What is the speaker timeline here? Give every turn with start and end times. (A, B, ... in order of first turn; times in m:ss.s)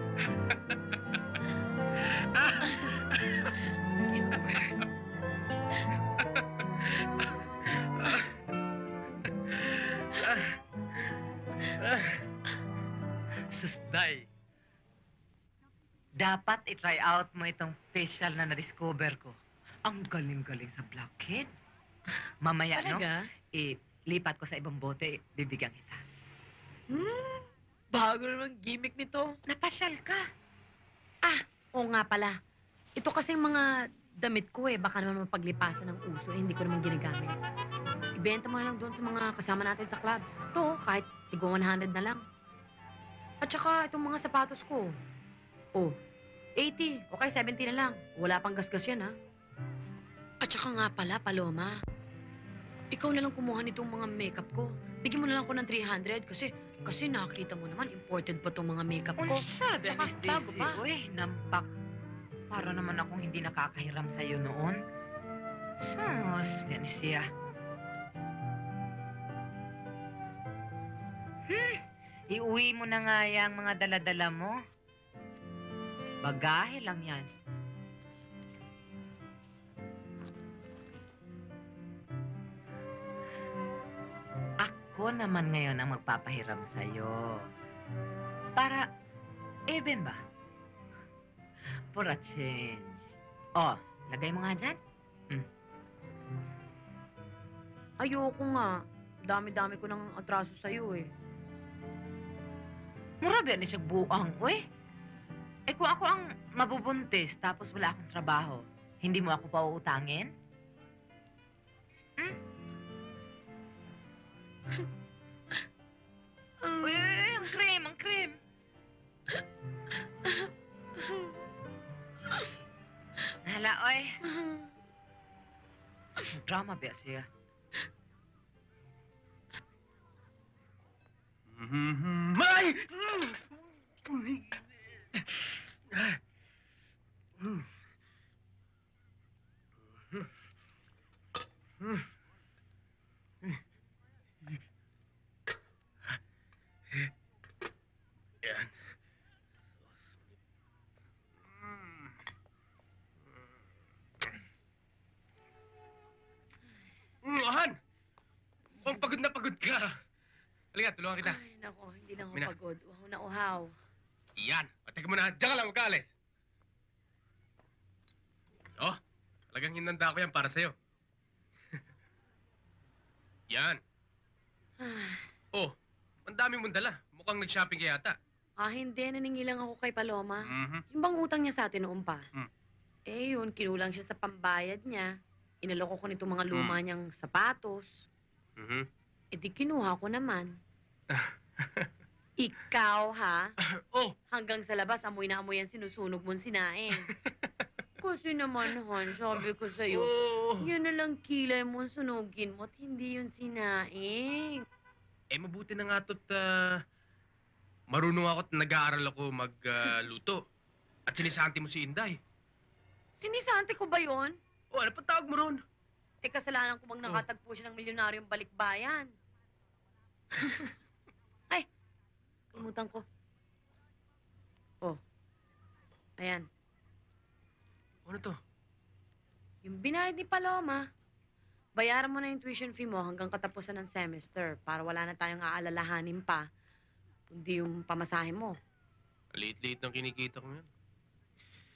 0:04.1-0:04.8 A
0:13.6-0:14.2 B
0:16.2-0:21.5 B
0:22.4-0:26.0 B
0:22.8-0:23.3 A
0:26.9-0:29.4 A
0:29.5-0:30.2 B
0:31.2-0:32.4 A
0:33.0-0:37.3 A
0:38.2-0:42.2 A
0:43.4-0:45.0 A
0:46.6-0:49.1 A
0:50.4-0:51.8 A
0:52.9-1:00.8 A
0:59.2-1:01.6 B
1:02.5-1:04.8 B
1:05.8-1:07.3 B
1:11.5-1:14.6 B
1:16.2-1:17.3 B
1:24.6-1:27.5 B
1:28.6-1:28.9 B
1:29.7-1:30.2 B
1:31.9-1:34.8 B
1:38.0-1:41.1 A
1:43.2-1:44.6 B
1:45.7-1:50.3 B
1:56.8-1:58.4 B
2:03.4-2:04.2 B
2:06.2-2:07.3 B
2:11.5-2:13.4 C
2:14.1-2:14.4 C
2:15.9-2:16.2 C
2:28.4-2:28.7 C
2:31.6-2:32.1 C
2:37.2-2:37.7 C
2:38.8-2:39.9 C
2:40.7-2:41.4 C
2:41.2-2:43.7 A
2:44.4-2:46.1 C
2:49.5-2:50.7 C
2:53.5-2:53.8 C
2:54.8-2:55.3 A
2:56.3-2:58.2 C
2:58.6-3:02.2 A
3:00.4-3:00.8 C
3:03.1-3:08.0 A
3:06.5-3:06.8 C
3:08.6-3:08.9 C
3:09.3-3:10.6 A
3:11.1-3:11.9 C
3:12.4-3:13.5 A
3:13.8-3:14.1 C
3:14.3-3:17.1 A
3:18.0-3:24.6 A
3:19.9-3:20.7 C
3:25.3-3:26.8 C
3:27.9-3:30.4 C
3:31.1-3:32.2 C
3:33.2-3:34.4 A
3:34.7-3:35.6 C
3:36.2-3:39.1 A
3:40.4-3:40.7 A
3:42.5-3:43.0 A
3:46.2-3:46.5 A
3:48.0-3:48.4 C
3:49.6-3:50.8 A
3:51.8-3:56.4 A
3:57.3-3:58.6 A
3:59.3-4:00.6 C